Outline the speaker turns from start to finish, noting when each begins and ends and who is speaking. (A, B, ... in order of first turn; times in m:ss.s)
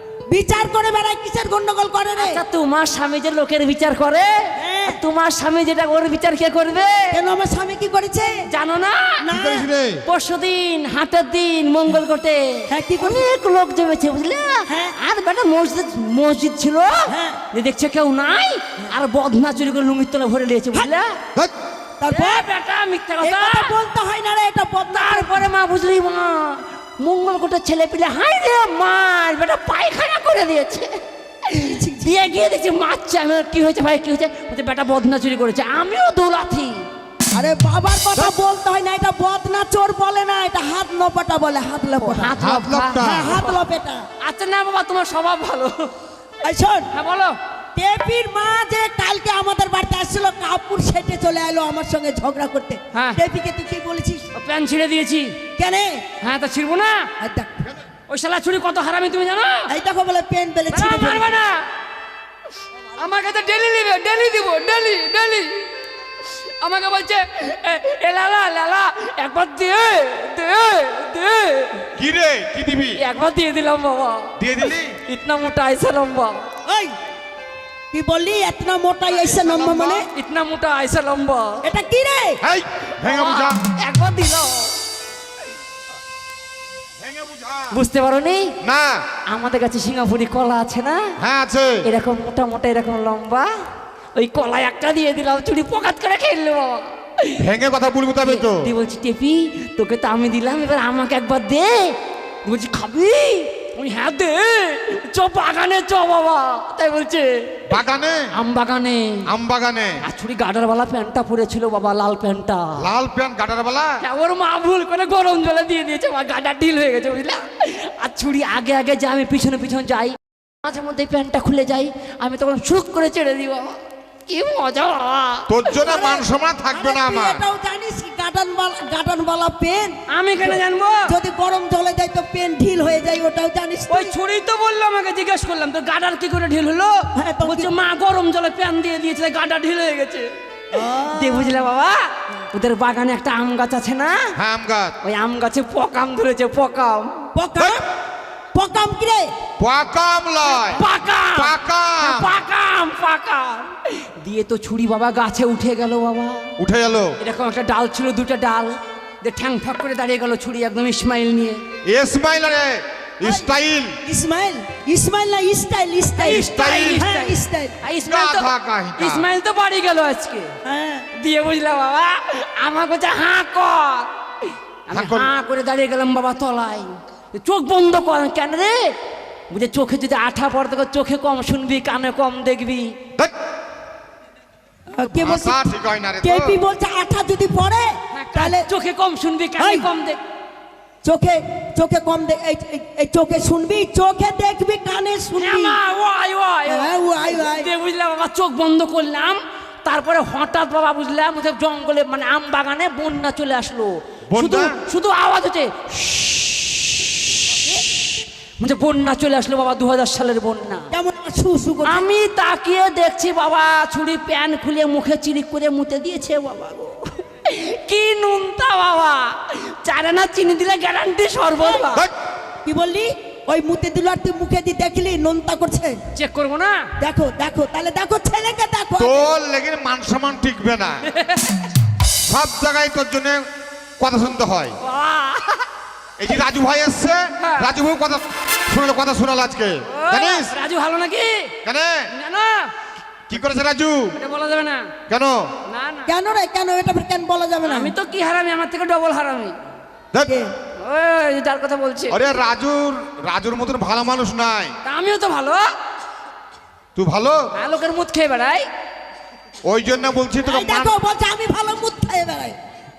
0:00.3-0:02.4 A
0:02.2-0:07.2 B
0:04.6-0:05.0 A
0:07.1-0:08.4 A
0:08.5-0:09.2 B
0:09.2-0:09.7 A
0:09.3-0:10.0 C
0:10.0-0:21.1 B
0:12.7-0:13.2 A
0:14.7-0:15.0 A
0:17.1-0:17.4 A
0:22.0-0:22.5 A
0:22.1-0:23.7 B
0:23.2-0:25.4 A
0:24.9-0:30.9 B
0:31.5-0:36.8 B
0:31.7-0:32.1 A
0:37.3-0:42.3 A
0:42.0-0:43.6 B
0:42.4-0:43.4 C
0:43.0-0:44.0 A
0:44.2-0:45.9 B
0:46.4-0:46.9 A
0:46.9-0:47.3 B
0:47.8-0:54.3 A
0:52.9-0:53.2 B
0:54.3-0:55.4 B
0:55.6-0:56.0 A
0:56.2-0:57.1 B
0:57.2-0:57.5 A
0:58.1-0:59.7 B
0:59.7-1:01.4 A
1:00.7-1:01.6 B
1:03.0-1:05.7 B
1:06.2-1:11.9 B
1:11.9-1:13.0 C
1:13.0-1:14.3 B
1:14.4-1:15.0 C
1:15.0-1:16.5 B
1:16.6-1:16.9 A
1:17.9-1:20.1 A
1:19.1-1:20.0 C
1:20.1-1:21.6 B
1:21.6-1:22.4 A
1:22.4-1:23.6 C
1:23.0-1:24.7 B
1:27.0-1:27.7 C
1:27.7-1:28.5 B
1:28.6-1:29.0 C
1:29.3-1:31.1 B
1:31.2-1:31.8 C
1:31.8-1:33.5 B
1:34.1-1:37.4 B
1:37.4-1:38.6 C
1:38.2-1:41.9 B
1:42.4-1:47.6 B
1:47.7-1:48.2 C
1:48.3-1:49.3 B
1:49.3-1:50.0 C
1:50.0-1:52.9 B
1:52.8-1:54.0 C
1:54.0-2:05.5 B
2:05.5-2:07.4 C
2:05.8-2:14.1 A
2:10.1-2:11.1 B
2:13.9-2:20.3 B
2:17.1-2:17.7 A
2:20.7-2:21.5 A
2:21.0-2:24.4 B
2:24.4-2:25.0 C
2:25.0-2:27.2 B
2:27.3-2:27.8 A
2:28.5-2:29.3 A
2:29.6-2:32.3 C
2:30.4-2:36.5 B
2:36.6-2:37.1 C
2:37.2-2:41.6 B
2:41.9-2:44.0 C
2:43.2-2:43.5 A
2:44.0-2:46.4 A
2:46.2-2:50.5 B
2:46.2-2:47.0 C
2:46.9-2:47.8 A
2:48.0-2:49.2 C
2:50.6-2:51.1 A
2:51.2-2:54.1 B
2:54.9-2:58.9 B
2:54.9-2:55.3 C
2:59.5-3:02.9 B
3:04.9-3:05.6 A
3:05.2-3:06.6 C
3:06.2-3:08.7 A
3:08.1-3:10.2 B
3:09.6-3:09.9 A
3:11.0-3:15.8 A
3:15.4-3:28.1 B
3:16.7-3:17.7 A
3:24.3-3:24.8 C
3:28.6-3:30.9 B
3:30.9-3:32.1 A
3:31.8-3:42.1 B
3:41.6-3:41.9 A
3:42.6-3:46.0 A
3:46.1-3:46.8 B
3:47.0-3:49.2 A
3:49.0-3:51.1 C
3:51.1-3:51.4 B
3:52.3-3:53.4 C
3:54.0-3:54.8 C
3:54.8-3:55.7 B
3:56.2-4:00.6 C
3:57.4-3:57.7 B
3:59.9-4:01.5 B
4:01.6-4:02.1 C
4:02.1-4:02.7 B
4:03.3-4:04.1 C
4:04.1-4:04.9 B
4:05.1-4:05.4 C
4:05.7-4:06.1 B
4:06.0-4:07.9 A
4:07.6-4:09.5 B
4:10.2-4:10.5 A
4:10.8-4:12.2 B
4:12.1-4:14.8 C
4:14.8-4:15.6 B
4:16.9-4:17.4 C
4:17.5-4:18.6 B
4:19.6-4:20.9 C
4:20.4-4:22.6 A